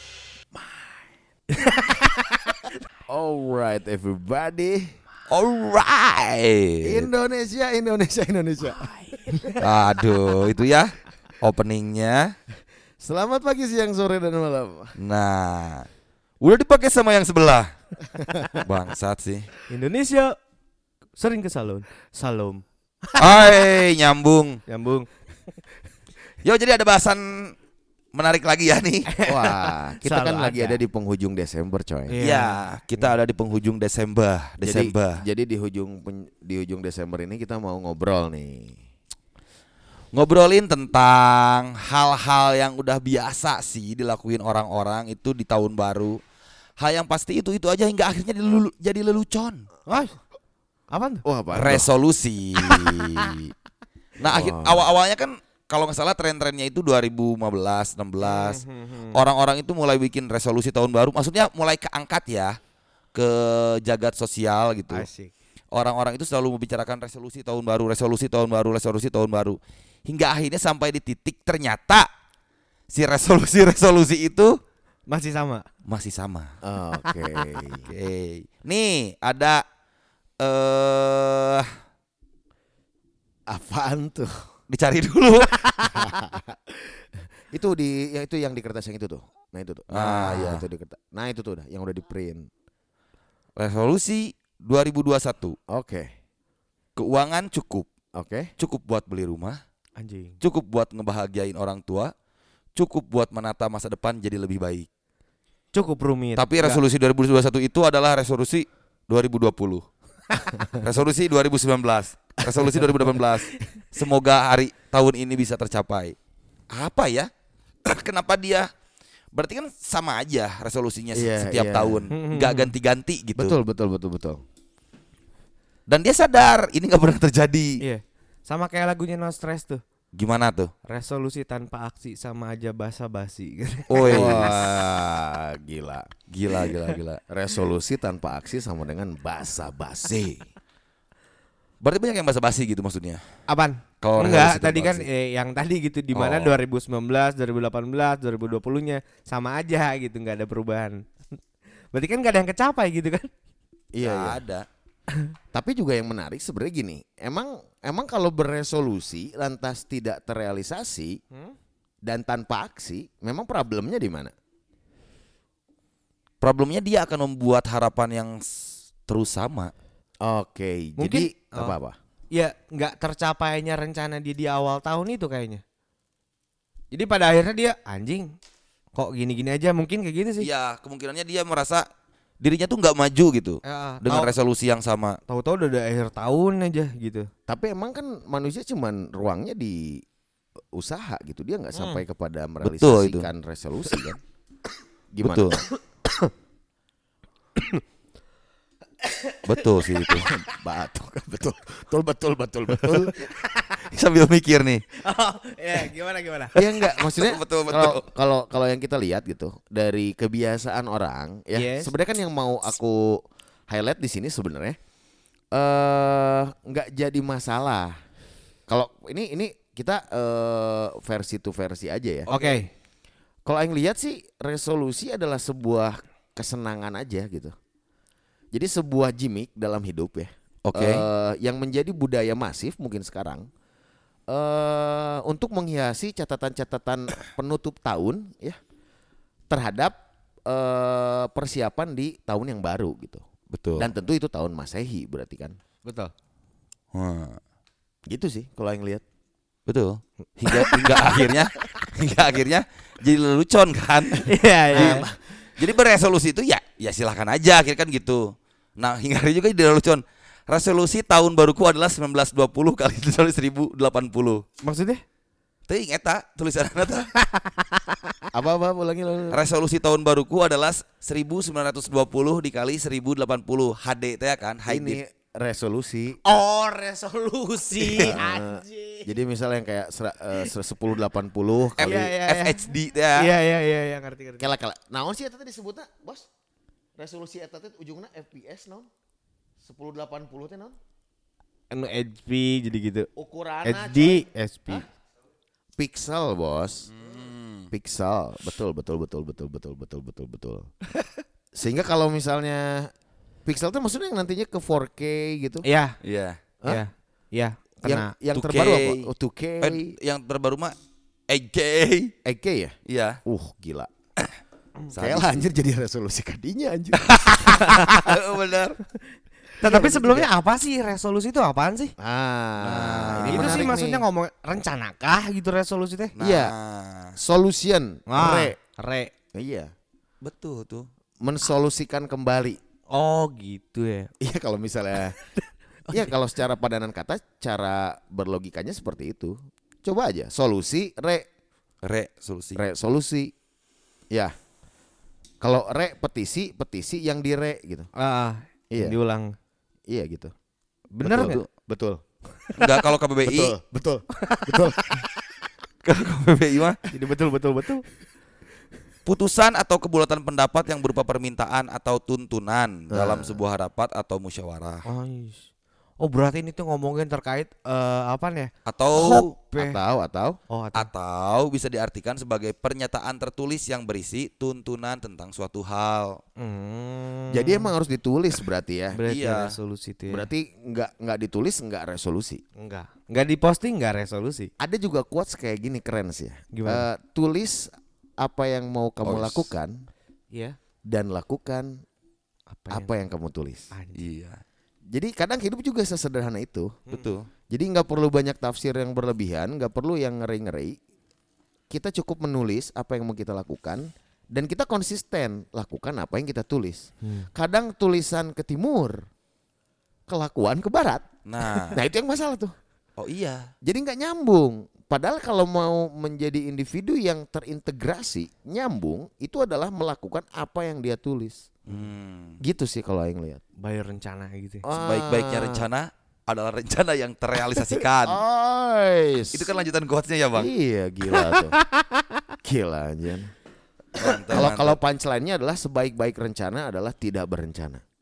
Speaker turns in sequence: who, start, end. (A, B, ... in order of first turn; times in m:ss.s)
0:01.5-0:02.5 A
0:03.1-0:04.9 B
0:05.3-0:07.1 C
0:06.8-0:09.6 B
0:09.2-0:09.5 A
0:09.6-0:12.3 C
0:13.0-0:14.9 B
0:15.0-0:15.9 C
0:16.4-0:17.7 C
0:18.6-0:19.5 C
0:19.7-0:20.3 A
0:21.2-0:23.6 A
0:23.2-0:24.6 C
0:24.7-0:25.1 A
0:26.4-0:27.5 C
0:28.1-0:29.1 C
0:29.1-0:30.8 A
0:29.2-0:32.2 B
0:32.1-0:32.8 A
0:32.2-0:35.2 C
0:34.6-0:38.8 B
0:40.1-0:46.2 C
0:46.8-0:49.6 C
0:49.9-0:50.2 A
0:50.9-0:51.2 A
0:51.2-0:51.9 B
0:51.5-0:53.5 C
0:54.2-1:02.6 C
0:54.2-0:54.9 B
0:58.2-0:59.2 A
1:03.1-1:05.1 C
1:04.9-1:05.3 A
1:05.7-1:12.1 C
1:12.9-1:14.6 C
1:15.1-1:15.6 A
1:15.9-1:16.5 C
1:16.6-1:17.9 B
1:17.0-1:17.4 A
1:17.8-1:19.6 C
1:20.4-1:21.7 C
1:23.5-1:24.3 B
1:24.7-1:26.1 C
1:25.9-1:26.6 B
1:27.5-1:32.5 B
1:29.9-1:30.6 C
1:33.6-1:35.6 C
1:35.7-1:36.1 B
1:37.0-1:37.9 C
1:38.1-1:38.5 B
1:38.6-1:39.6 C
1:40.0-1:40.4 A
1:40.4-1:42.1 C
1:42.8-1:44.9 C
1:45.7-1:46.8 A
1:46.4-1:49.8 C
1:50.6-1:56.2 C
1:52.5-1:52.9 B
1:56.7-1:57.3 C
1:57.8-1:58.7 C
1:59.3-2:03.6 C
2:01.1-2:02.1 B
2:02.1-2:02.7 A
2:03.4-2:04.4 B
2:05.9-2:07.8 C
2:07.8-2:09.8 A
2:10.1-2:10.7 C
2:10.8-2:14.5 A
2:13.9-2:14.6 C
2:14.0-2:16.1 B
2:16.3-2:17.2 C
2:17.3-2:20.4 B
2:21.8-2:23.2 C
2:23.5-2:31.0 A
2:24.0-2:25.1 C
2:26.1-2:26.5 C
2:31.9-2:33.3 A
2:33.9-2:34.4 B
2:34.0-2:34.6 C
2:35.5-2:41.2 B
2:42.0-2:44.3 B
2:46.4-2:48.5 C
2:49.0-2:49.7 C
2:50.2-2:52.0 B
2:51.0-2:51.8 A
2:52.3-2:55.6 A
2:56.9-2:58.3 A
2:58.9-3:00.5 A
3:00.4-3:01.8 C
3:02.4-3:05.2 C
3:03.6-3:04.3 A
3:05.3-3:07.3 A
3:07.5-3:10.0 B
3:10.7-3:14.2 B
3:11.7-3:12.0 A
3:12.6-3:13.3 C
3:15.1-3:15.6 B
3:15.2-3:15.6 C
3:19.0-3:19.6 A
3:19.4-3:20.3 C
3:20.3-3:23.3 B
3:23.3-3:23.8 A
3:23.8-3:24.8 C
3:25.0-3:26.6 A
3:26.5-3:34.8 B
3:26.6-3:28.0 C
3:31.5-3:31.9 A
3:35.5-3:37.9 B
3:38.7-3:42.3 B
3:42.3-3:42.7 A
3:43.4-3:47.5 B
3:48.5-3:53.4 B
3:50.6-3:51.0 C
3:54.3-3:58.6 B
3:59.5-3:59.9 B
4:00.5-4:03.2 B
4:03.5-4:03.9 C
4:03.8-4:05.6 B
4:05.8-4:06.1 A
4:06.9-4:07.4 C
4:08.1-4:09.0 B
4:09.7-4:18.2 C
4:10.5-4:10.9 A
4:14.2-4:15.1 A
4:14.7-4:15.2 B
4:18.8-4:24.4 C
4:24.6-4:25.0 A
4:25.7-4:27.1 C
4:27.2-4:27.9 A
4:28.3-4:29.4 B
4:29.3-4:35.0 C
4:34.7-4:36.2 B
4:36.2-4:39.1 A
4:37.8-4:42.1 B
4:41.8-4:44.5 A
4:41.8-4:43.3 C
4:44.4-4:46.3 B
4:47.0-4:48.9 B
4:49.6-4:50.8 B
4:51.7-4:53.1 A
4:53.2-4:54.8 B
4:53.6-4:54.8 A
4:55.8-4:56.9 B
4:56.9-4:57.7 C
4:57.7-5:00.7 B
5:01.5-5:02.9 B
5:03.4-5:05.6 B
5:05.6-5:06.0 A
5:06.0-5:06.4 C
5:06.6-5:08.1 A
5:07.8-5:09.9 B
5:08.3-5:09.1 C
5:09.6-5:10.8 C
5:11.3-5:12.1 C
5:12.2-5:13.9 B
5:12.8-5:13.2 C
5:14.9-5:15.5 C
5:14.9-5:17.7 B
5:17.0-5:18.8 C
5:17.5-5:18.0 A
5:19.6-5:21.9 A
5:19.6-5:20.3 B
5:22.0-5:24.0 B
5:22.6-5:23.8 C
5:22.8-5:26.1 A
5:26.2-5:27.2 C
5:26.2-5:26.5 B
5:27.2-5:28.6 B
5:28.1-5:29.1 A
5:29.3-5:29.7 B
5:30.2-5:30.9 C
5:31.2-5:32.6 B
5:32.9-5:34.1 A
5:34.2-5:35.2 B
5:35.9-5:41.2 B
5:41.8-5:42.6 C
5:42.5-5:43.3 B
5:45.4-5:47.9 B
5:48.0-5:49.3 A
5:48.7-5:49.0 B
5:49.9-5:50.3 B
5:50.9-5:51.4 A
5:51.0-5:52.0 B
5:51.2-5:51.5 C
5:52.6-5:53.6 C
5:53.2-5:55.0 B
5:54.2-5:54.9 A
5:55.8-5:56.8 C
5:56.9-5:57.8 A
5:59.0-6:04.8 C
6:02.9-6:03.4 B
6:04.8-6:09.8 A
6:08.6-6:09.3 C
6:08.9-6:10.4 B
6:10.5-6:10.9 A
6:10.8-6:16.2 C
6:16.4-6:17.7 A
6:17.3-6:19.0 B
6:18.9-6:20.3 A
6:19.1-6:19.5 C
6:20.1-6:22.4 B
6:22.6-6:24.5 A
6:24.6-6:29.8 B
6:26.5-6:26.8 A
6:29.0-6:29.5 C
6:30.3-6:30.6 A
6:30.8-6:31.8 B
6:32.5-6:32.9 A
6:32.7-6:33.7 B
6:33.7-6:34.0 A
6:33.9-6:34.4 C
6:34.9-6:36.8 B
6:36.9-6:37.1 A
6:36.9-6:37.3 C
6:37.5-6:40.8 B
6:41.7-6:49.0 B
6:47.0-6:47.3 A
6:50.1-6:51.1 B
6:51.2-6:51.8 C
6:51.7-6:52.5 B
6:53.0-6:53.5 C
6:53.6-7:01.5 B
7:01.7-7:02.4 C
7:02.4-7:03.4 B
7:03.6-7:04.6 A
7:04.6-7:05.7 B
7:04.7-7:08.2 C
7:08.0-7:09.5 B
7:09.3-7:10.5 C
7:10.3-7:11.6 B
7:11.2-7:11.8 A
7:12.4-7:13.3 B
7:14.0-7:14.8 C
7:14.2-7:17.8 B